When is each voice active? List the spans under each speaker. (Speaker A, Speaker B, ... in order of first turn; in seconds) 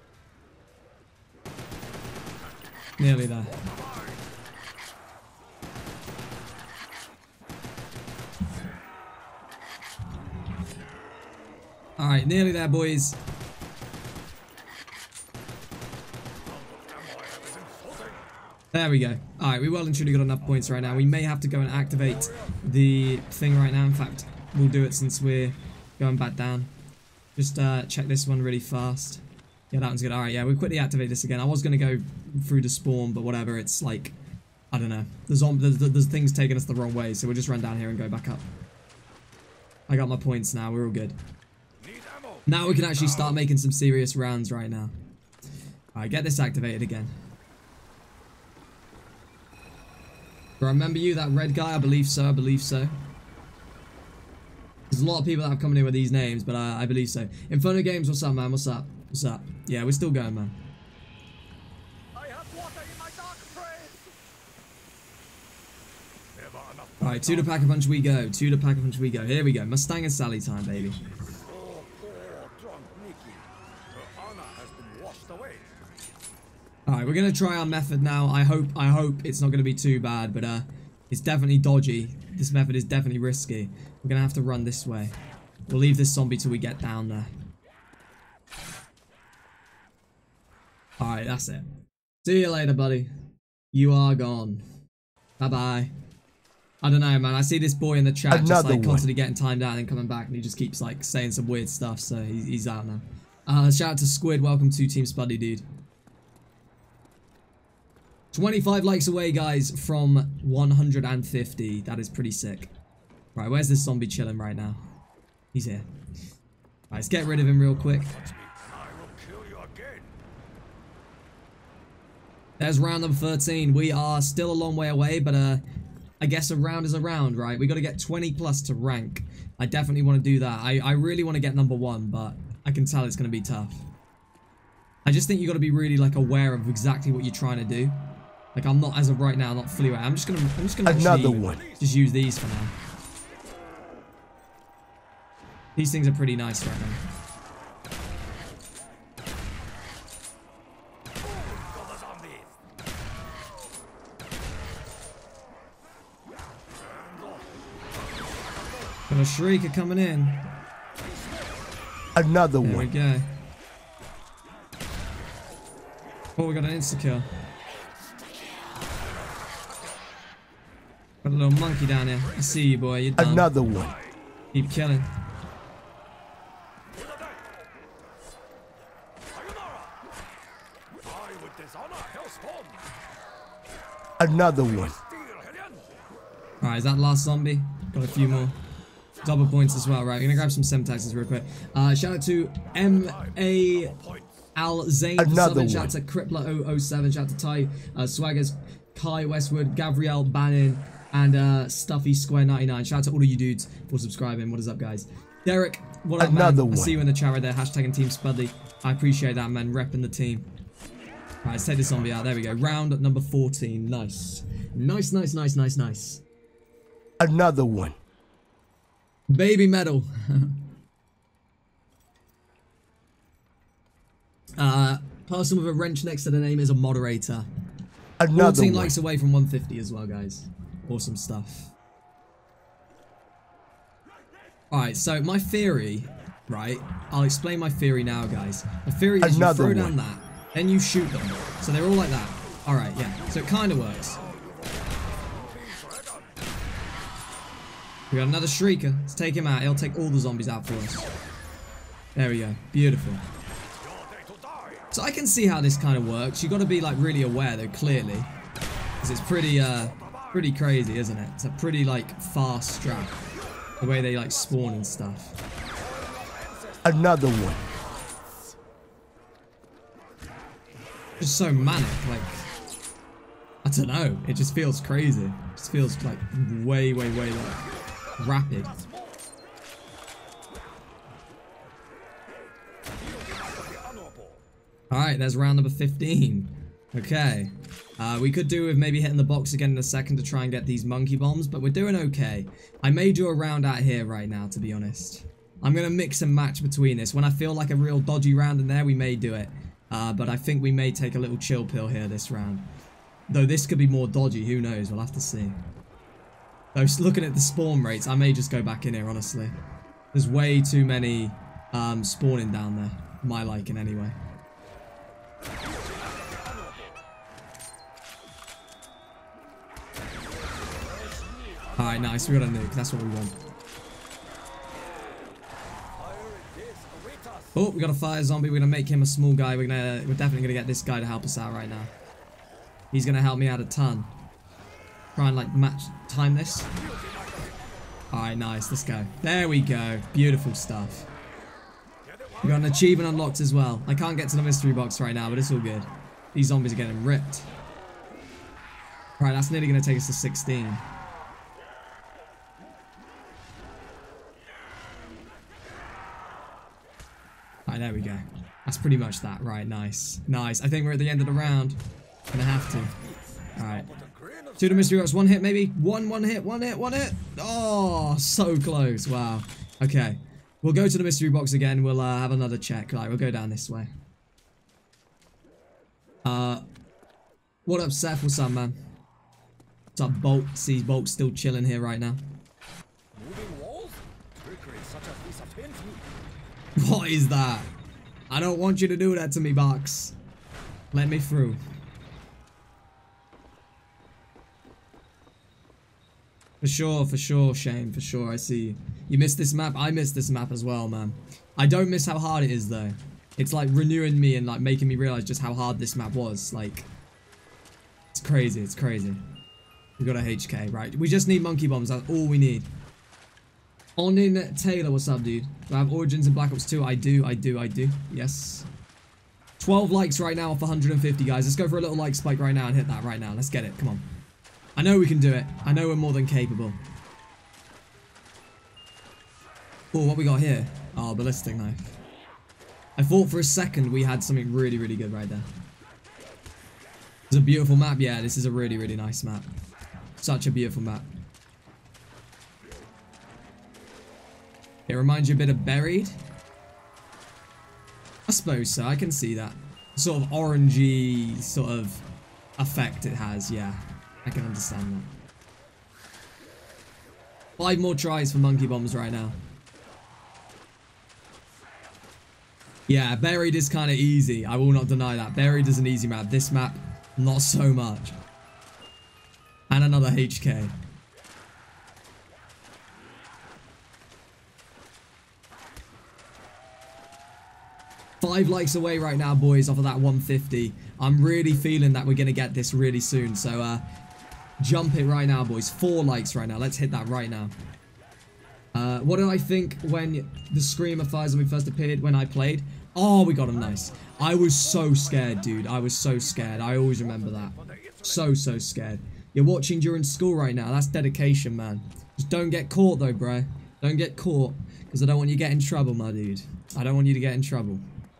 Speaker A: 3.0-3.6, 12.0-13.2, 18.7-26.7, 27.4-34.1, 34.7-38.4, 39.9-41.1, 42.5-44.9, 45.9-47.1, 50.6-52.9, 54.9-60.7, 67.0-71.0, 76.9-85.1, 85.7-87.3, 91.0-91.7, 92.2-93.1, 93.7-94.6, 95.4-95.9, 96.8-105.6, 108.3-112.7, 113.3-114.8, 115.5-115.8, 116.9-118.1, 122.6-125.6, 126.2-133.8, 135.1-138.0, 138.5-142.7, 145.8-147.0, 159.1-160.5, 162.6-163.3, 166.4-167.3, 171.2-173.5, 174.5-175.1, 186.6-188.6, 189.2-193.9, 194.6-210.5, 211.4-216.2, 219.3-220.6, 224.6-227.5, 228.3-231.7, 234.7-244.2, 248.1-251.1, 252.2-253.2, 254.9-258.3, 259.0-263.2, 263.8-265.4, 271.2-272.4, 273.6-277.6, 278.2-278.7, 284.9-302.7, 303.3-305.6, 306.7-309.6, 310.1-314.1, 321.8-323.4, 327.6-331.9, 332.9-334.1, 335.1-336.7, 338.1-341.1, 342.4-347.5, 349.2-350.8, 357.7-361.8, 362.3-362.9, 363.6-363.9, 364.6-373.9, 376.2-376.6, 377.6-378.8, 379.9-382.2, 386.8-387.7, 388.3-390.1, 390.9-391.6, 396.6-406.9, 408.1-409.2, 410.0-412.7, 414.0-418.6, 419.6-424.1, 424.8-426.8, 429.9-432.0, 433.0-435.4, 437.3-439.5, 440.2-441.1, 444.9-446.1, 448.3-452.0, 452.6-455.1, 457.6-459.4, 462.9-468.2, 469.7-470.7, 478.2-483.8, 484.6-487.5, 488.7-507.8
Speaker B: 3.6-4.2, 16.5-18.2, 41.8-43.3, 62.1-64.0, 66.4-67.7, 71.2-75.7, 118.1-120.2, 151.4-152.5, 156.8-157.6, 161.0-161.6, 176.9-177.4, 179.3-179.9, 181.0-182.8, 185.0-185.9, 192.9-194.3, 244.1-246.4, 253.8-254.9, 260.0-260.3, 263.6-264.8, 265.7-266.9, 278.2-279.2, 282.9-284.4, 315.6-317.0, 320.6-322.4, 325.9-327.6, 336.7-337.8, 342.0-343.1, 363.0-365.1, 383.1-386.2, 497.1-498.3
Speaker C: 98.3-99.0, 140.8-141.6, 162.1-162.9, 173.2-174.0, 184.2-185.0, 195.2-195.9, 206.2-207.0, 217.2-218.0, 228.2-228.9, 239.2-239.9, 266.8-267.7